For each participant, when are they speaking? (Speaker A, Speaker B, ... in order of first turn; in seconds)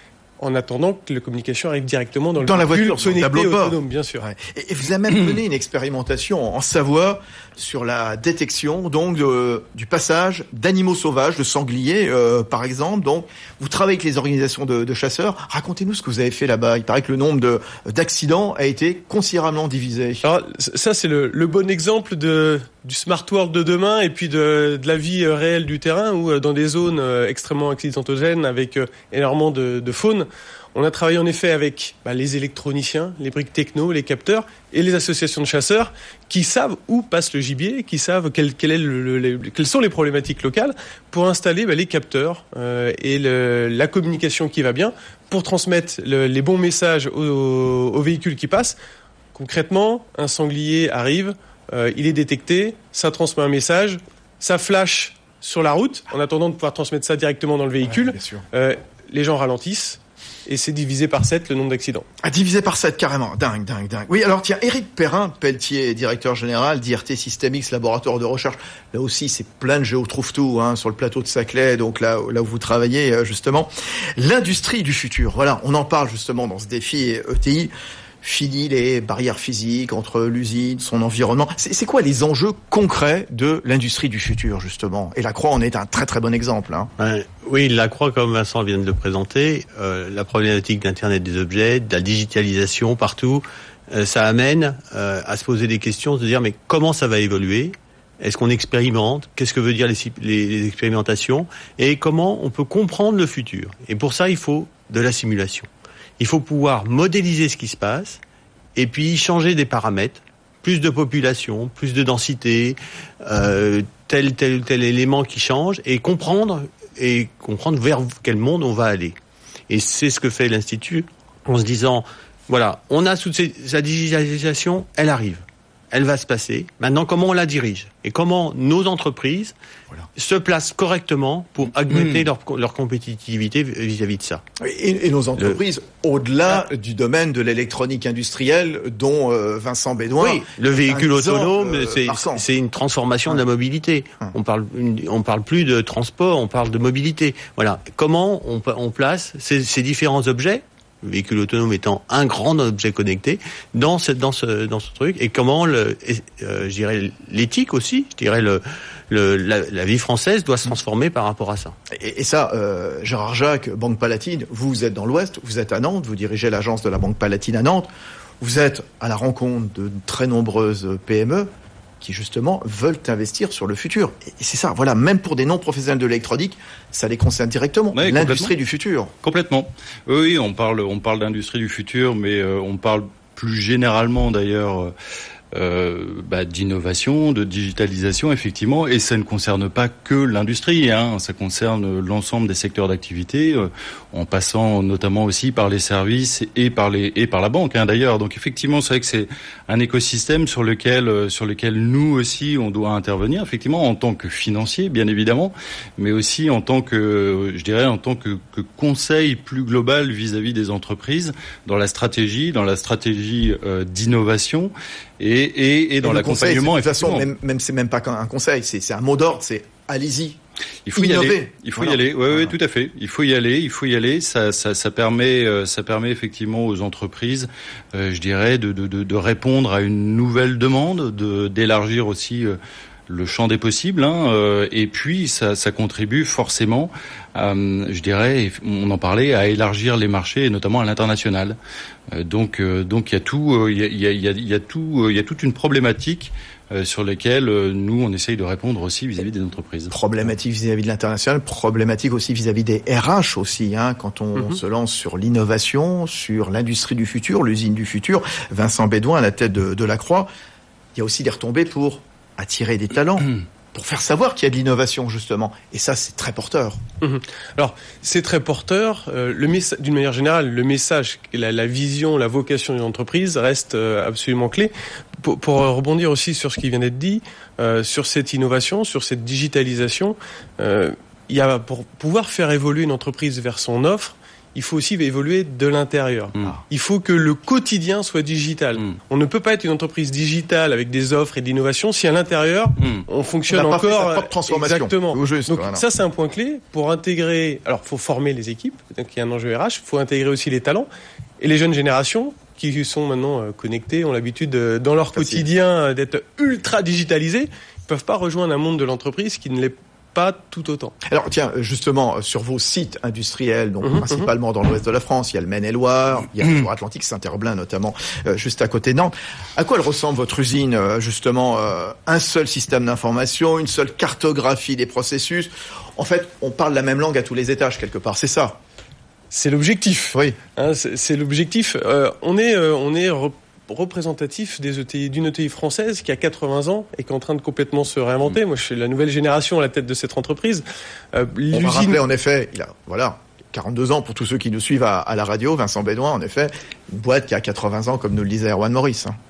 Speaker A: 0.4-4.2, 20.2-48.8, 49.3-62.1, 267.0-300.9, 301.4-310.9, 313.8-314.3, 329.3-342.0
Speaker B: 2.4-20.2, 57.8-58.4, 62.2-77.7, 78.2-86.9, 134.6-142.4, 161.9-167.9, 168.4-179.1, 216.0-220.4, 220.9-222.5, 249.9-260.3, 260.9-266.8, 293.5-295.8, 305.1-305.5, 311.1-328.6, 341.5-349.2
Speaker C: 87.0-108.2, 108.8-119.2, 119.7-129.5, 130.2-134.4, 140.2-161.8
Speaker D: 131.9-132.3, 177.9-178.5, 179.2-184.9, 185.5-217.3, 220.8-241.6, 242.1-249.9